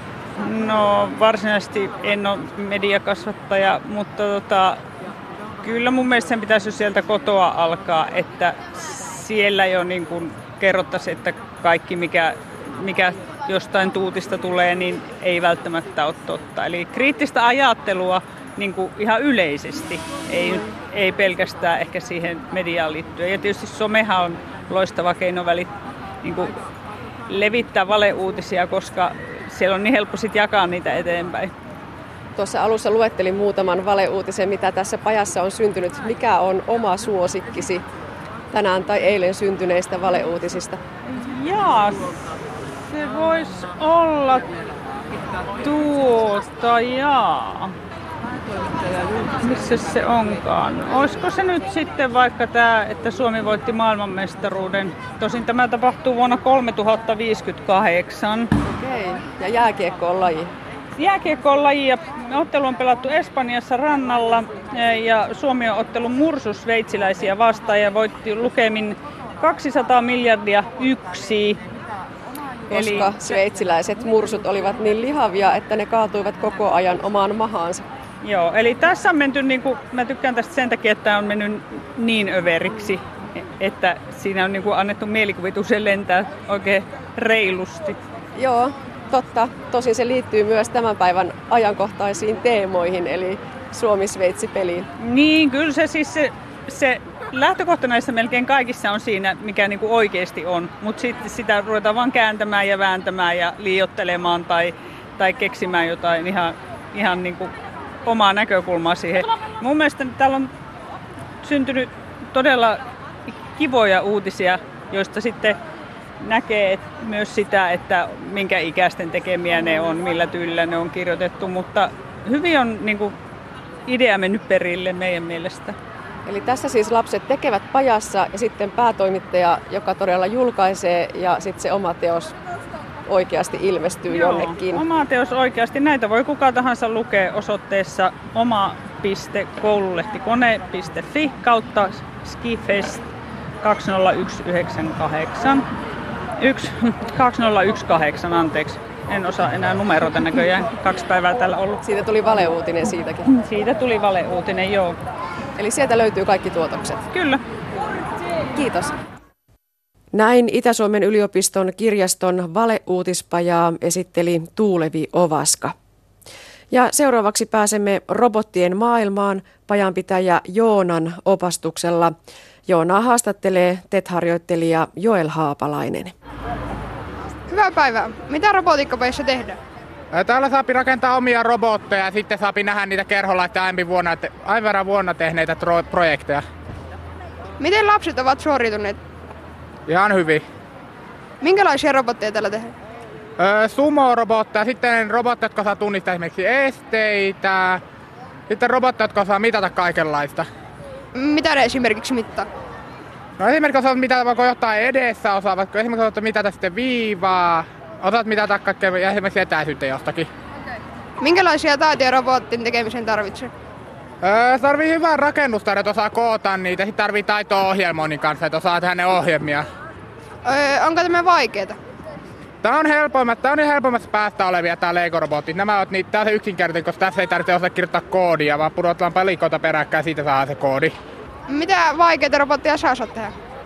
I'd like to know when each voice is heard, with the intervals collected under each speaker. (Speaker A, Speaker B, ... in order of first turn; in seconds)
Speaker A: 0.4-4.8, 5.6-25.7, 26.2-26.6, 27.3-31.5, 41.1-42.1, 42.9-44.5, 45.6-47.7, 48.8-58.5, 61.0-71.6, 72.7-73.4, 78.2-88.0, 95.0-107.5, 108.0-110.5, 111.4-115.6, 116.2-123.2, 123.8-125.8, 134.1-143.1, 143.6-145.7, 146.4-151.8, 153.3-155.0, 157.1-157.4
Speaker B: 32.4-37.8, 38.5-40.8, 58.7-60.5, 72.7-77.8, 88.3-94.9, 126.2-132.3, 133.1-134.8, 151.8-153.3, 155.6-157.0, 158.5-158.9, 160.1-165.7, 166.7-172.1, 172.7-176.1
Speaker C: 177.5-179.6, 187.6-189.0, 191.4-192.7, 201.1-202.5, 211.2-213.5, 220.4-221.8, 231.5-233.3
Speaker D: 180.1-186.4, 189.8-190.4, 193.4-197.8, 198.5-200.5, 203.4-210.3, 214.2-219.7, 222.6-231.0